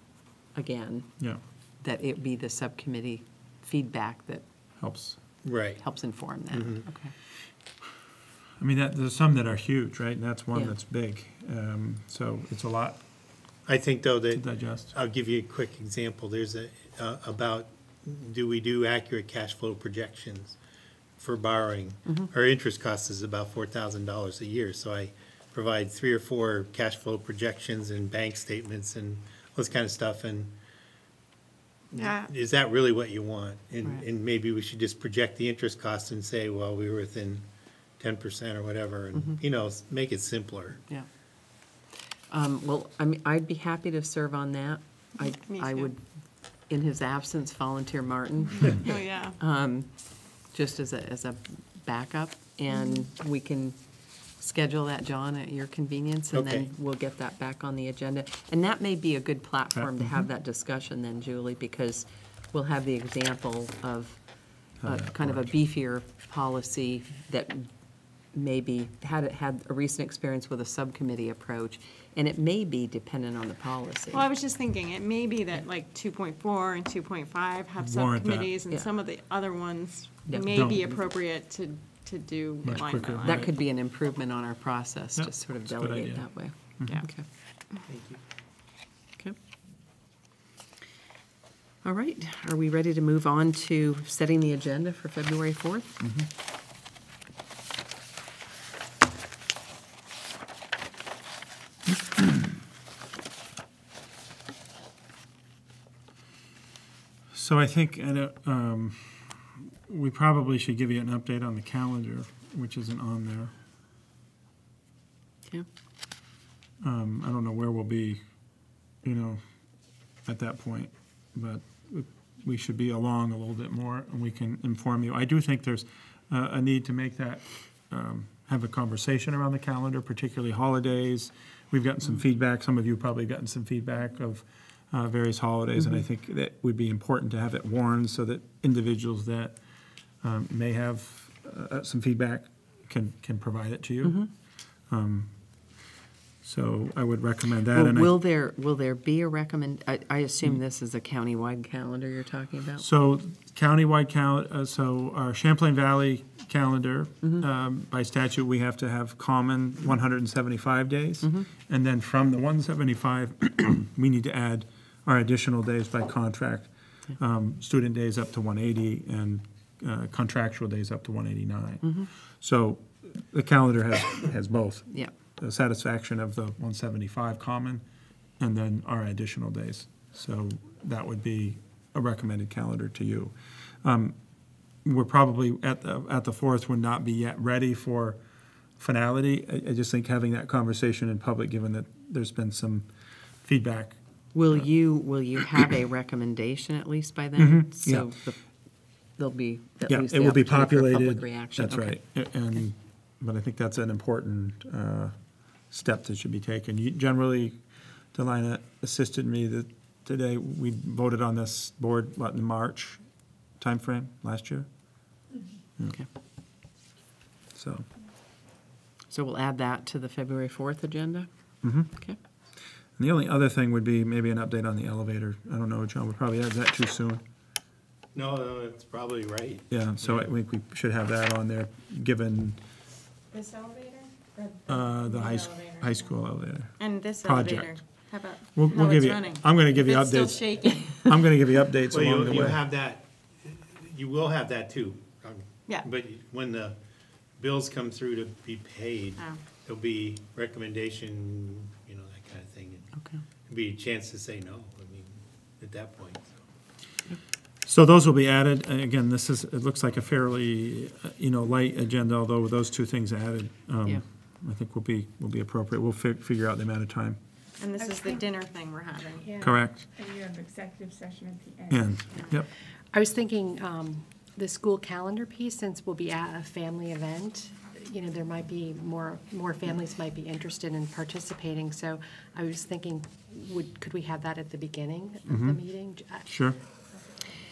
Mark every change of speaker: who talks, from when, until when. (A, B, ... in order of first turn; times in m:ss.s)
0:00.6-0:01.1 A
0:01.8-0:04.4 A
0:04.8-0:05.2 B
0:05.4-0:05.8 C
0:05.8-0:07.1 A
0:06.5-0:06.8 C
0:08.6-0:13.0 B
0:13.7-0:20.6 C
0:14.4-0:14.9 B
0:21.2-0:30.5 C
0:31.9-0:37.5 C
0:31.9-0:32.3 D
0:38.0-0:40.8 C
0:42.3-0:46.0 A
0:45.2-0:45.9 D
0:46.7-0:50.0 A
0:48.7-0:49.4 D
0:50.5-0:53.8 A
0:54.4-1:04.2 A
0:56.3-0:56.7 C
0:59.8-1:00.3 B
1:04.8-1:05.5 B
1:04.8-1:07.7 A
1:08.3-1:14.3 A
1:14.1-1:23.5 D
1:17.8-1:18.5 B
1:20.3-1:21.0 A
1:20.5-1:20.9 B
1:22.6-1:23.5 B
1:23.2-1:27.3 A
1:25.2-1:27.0 B
1:27.9-1:28.2 C
1:31.8-1:36.0 A
1:36.0-1:36.3 B
1:47.3-1:53.5 B
1:56.8-1:58.2 B
1:59.0-1:59.4 B
2:00.3-2:19.6 B
2:20.2-2:24.2 B
2:24.0-2:24.3 A
2:24.9-2:25.3 B
2:26.4-2:28.2 B
2:27.7-2:32.9 A
2:32.8-2:57.8 B
2:51.8-2:52.1 A
2:58.4-3:04.2 B
3:04.8-3:08.2 B
3:08.8-3:12.9 B
3:13.4-3:14.0 B
3:14.3-3:18.4 A
3:17.4-3:18.1 B
3:19.2-3:22.0 A
3:19.9-3:25.2 B
3:25.7-3:27.6 B
3:28.1-3:33.0 B
3:33.6-3:34.7 B
3:37.6-3:37.9 B
3:39.1-3:41.3 A
3:41.6-3:41.9 B
3:41.9-3:42.2 A
3:43.0-3:47.2 B
3:48.1-3:50.3 C
3:49.7-3:52.6 B
3:53.3-3:56.0 D
3:54.7-3:57.8 B
3:56.8-4:01.1 D
3:58.6-4:02.6 B
4:01.9-4:06.8 C
4:07.4-4:12.9 C
4:13.0-4:13.2 A
4:13.5-4:16.4 C
4:17.6-4:27.2 B
4:27.6-4:29.4 D
4:29.4-4:29.9 B
4:29.9-4:32.0 E
4:31.7-4:32.5 B
4:32.9-4:40.6 F
4:37.0-4:37.4 C
4:38.0-4:41.8 C
4:41.3-4:46.2 F
4:44.2-4:44.8 C
4:45.3-4:45.6 B
4:46.3-4:46.6 B